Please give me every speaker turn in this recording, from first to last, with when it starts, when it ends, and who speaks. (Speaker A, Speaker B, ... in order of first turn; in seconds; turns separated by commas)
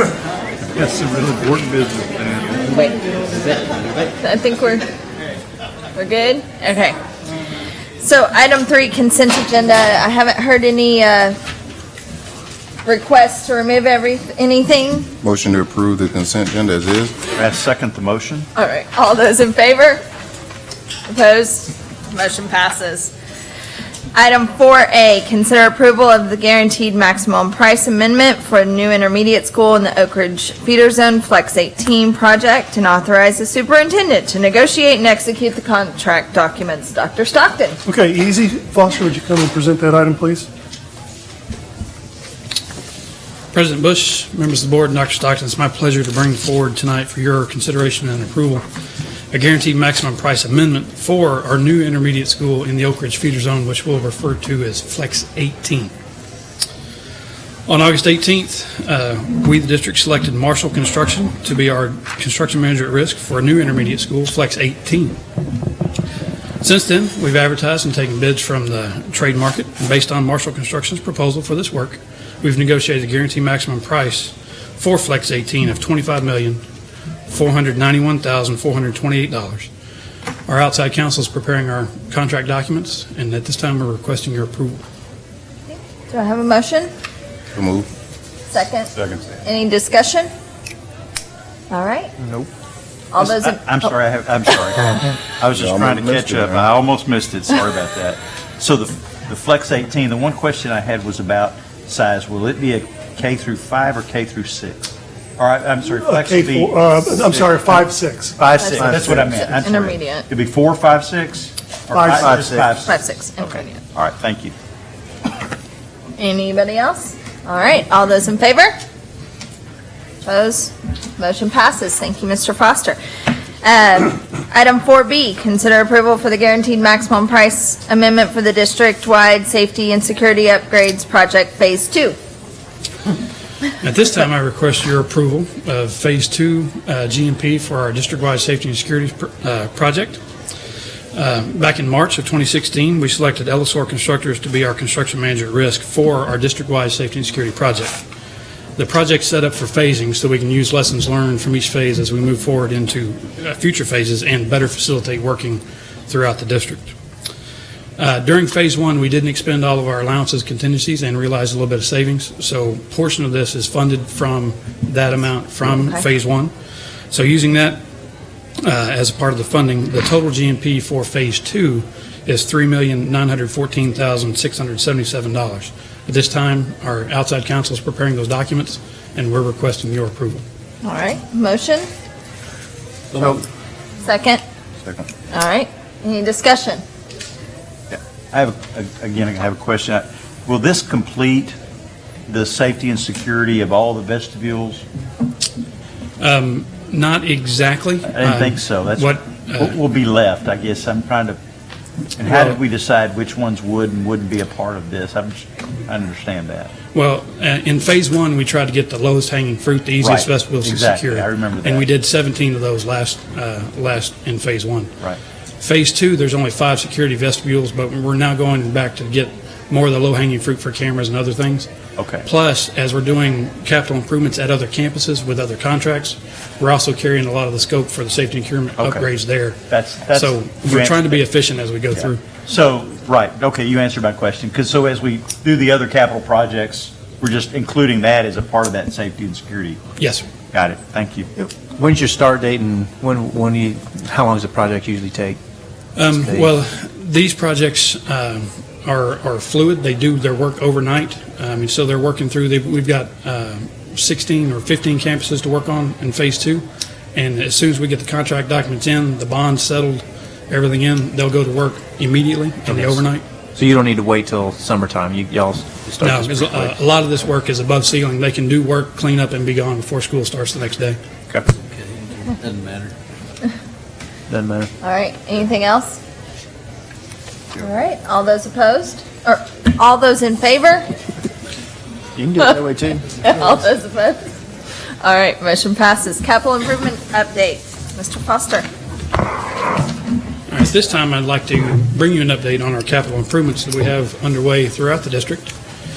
Speaker A: 0.7-2.7, Speaker B: 2.7-3.0, Speaker B: 4.2-4.8, Speaker B: 5.9-7.0, Speaker B: 8.0-11.4, Speaker B: 12.8-15.1, Speaker C: 15.2-17.1, Speaker A: 17.3-18.5, Speaker B: 18.6-20.0, Speaker B: 21.1-23.1, Speaker B: 24.1-37.8, Speaker D: 37.9-40.5, Speaker E: 43.5-48.6, Speaker E: 49.3-55.9, Speaker E: 57.7-65.2, Speaker E: 66.6-76.6, Speaker E: 77.3-79.7, Speaker E: 80.5-84.8, Speaker B: 85.7-86.9, Speaker C: 87.5-87.9, Speaker B: 88.5-90.3, Speaker B: 91.7-92.1, Speaker B: 93.1-93.6, Speaker A: 93.2-107.5, Speaker C: 95.5-96.7, Speaker D: 105.8-109.1, Speaker A: 108.4-114.5, Speaker B: 108.6-110.3, Speaker D: 111.9-112.7, Speaker B: 112.8-113.8, Speaker B: 116.2-118.7, Speaker B: 120.2-123.0, Speaker B: 123.6-132.2, Speaker E: 133.8-140.2, Speaker E: 141.1-148.0, Speaker E: 148.8-156.9, Speaker E: 158.0-166.5, Speaker B: 165.7-166.0, Speaker E: 167.1-167.8, Speaker E: 168.6-180.4, Speaker B: 180.8-181.9, Speaker B: 184.0-184.4, Speaker B: 185.3-186.8, Speaker A: 187.9-191.6, Speaker A: 192.3-194.8, Speaker E: 196.2-199.8, Speaker A: 198.1-201.4, Speaker A: 202.2-206.7, Speaker E: 202.2-202.6, Speaker E: 206.9-214.9, Speaker A: 210.0-211.8, Speaker E: 215.6-221.7, Speaker A: 221.9-222.2, Speaker E: 222.2-229.6, Speaker A: 228.8-229.1, Speaker A: 229.7-231.2, Speaker E: 230.1-232.2, Speaker A: 231.9-239.8, Speaker E: 240.0-240.2, Speaker A: 240.5-241.3, Speaker F: 241.4-245.4, Speaker E: 245.9-263.2, Speaker F: 246.0-246.5, Speaker F: 262.7-263.0, Speaker F: 263.6-266.7, Speaker E: 266.0-271.0, Speaker A: 272.2-272.9, Speaker F: 274.3-274.7, Speaker B: 274.8-276.0, Speaker B: 277.6-280.9, Speaker F: 282.2-283.3, Speaker B: 283.2-284.3, Speaker B: 285.0-288.6, Speaker E: 290.5-295.5